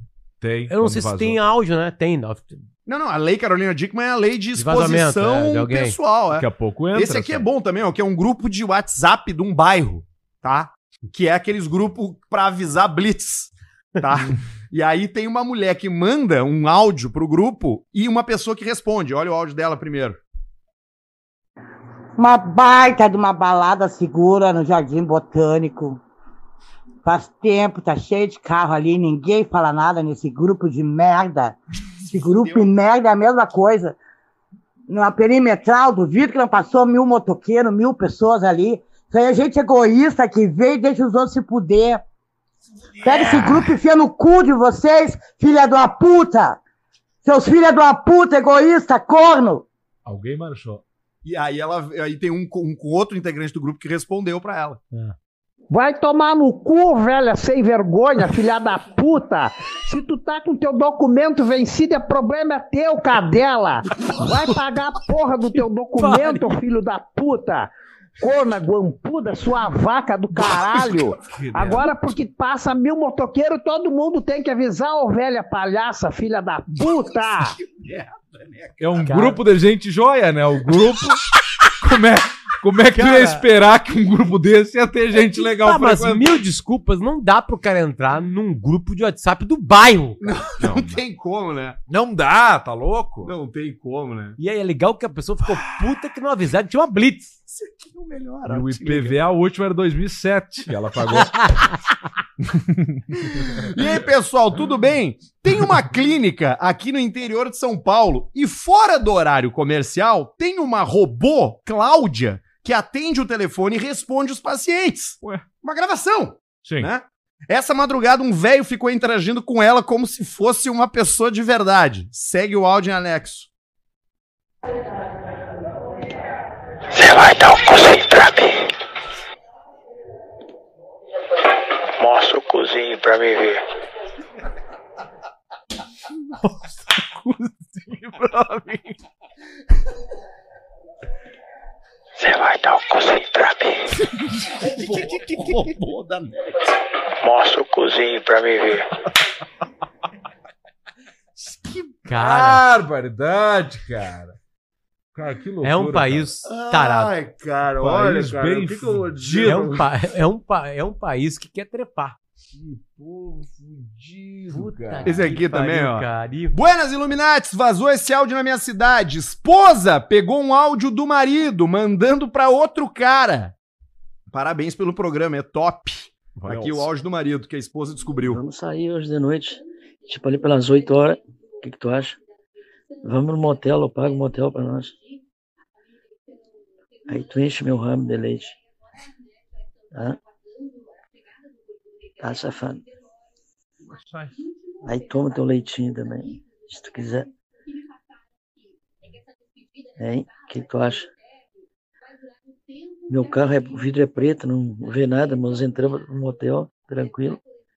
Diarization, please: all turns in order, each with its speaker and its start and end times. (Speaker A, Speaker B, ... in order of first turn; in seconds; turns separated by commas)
Speaker A: 0.4-1.4, Speaker B: 0.7-2.6, Speaker C: 2.9-20.2, Speaker B: 4.5-6.0, Speaker A: 6.3-7.5, Speaker D: 22.2-26.0, Speaker D: 27.0-31.6, Speaker D: 32.1-34.0, Speaker C: 32.2-32.7, Speaker D: 34.9-42.0, Speaker D: 43.0-46.6, Speaker A: 43.0-43.8, Speaker D: 47.2-49.6, Speaker A: 50.0-50.8, Speaker C: 51.2-54.8, Speaker E: 55.7-77.5, Speaker B: 66.0-66.5, Speaker A: 71.2-72.0, Speaker C: 77.6-79.0, Speaker A: 78.8-81.2, Speaker B: 79.0-79.4, Speaker A: 81.8-86.4, Speaker B: 83.0-83.4, Speaker B: 85.6-90.3, Speaker C: 90.2-91.8, Speaker A: 90.6-91.0, Speaker A: 91.9-93.3, Speaker C: 93.2-94.4, Speaker B: 94.4-97.3, Speaker C: 97.5-99.2, Speaker A: 98.5-101.7, Speaker A: 102.4-103.0, Speaker C: 103.2-123.5, Speaker A: 116.6-116.9, Speaker F: 126.9-128.7, Speaker F: 132.0-133.6, Speaker A: 137.3-138.9, Speaker F: 142.2-143.9, Speaker C: 144.6-146.6, Speaker F: 147.2-148.8, Speaker C: 151.4-151.9, Speaker B: 152.1-152.6, Speaker A: 152.2-154.3, Speaker A: 155.1-156.3, Speaker B: 155.6-157.1, Speaker C: 156.4-159.8, Speaker A: 157.8-159.8, Speaker B: 159.4-162.2, Speaker A: 162.5-165.2, Speaker B: 164.5-166.5, Speaker C: 165.0-173.5, Speaker C: 174.3-178.4, Speaker A: 176.3-176.9, Speaker G: 178.3-182.2, Speaker G: 183.0-184.9, Speaker G: 187.1-188.6, Speaker G: 189.9-190.2, Speaker G: 192.2-192.8, Speaker A: 193.9-194.4, Speaker G: 194.8-197.3, Speaker G: 200.0-201.1, Speaker G: 203.1-207.4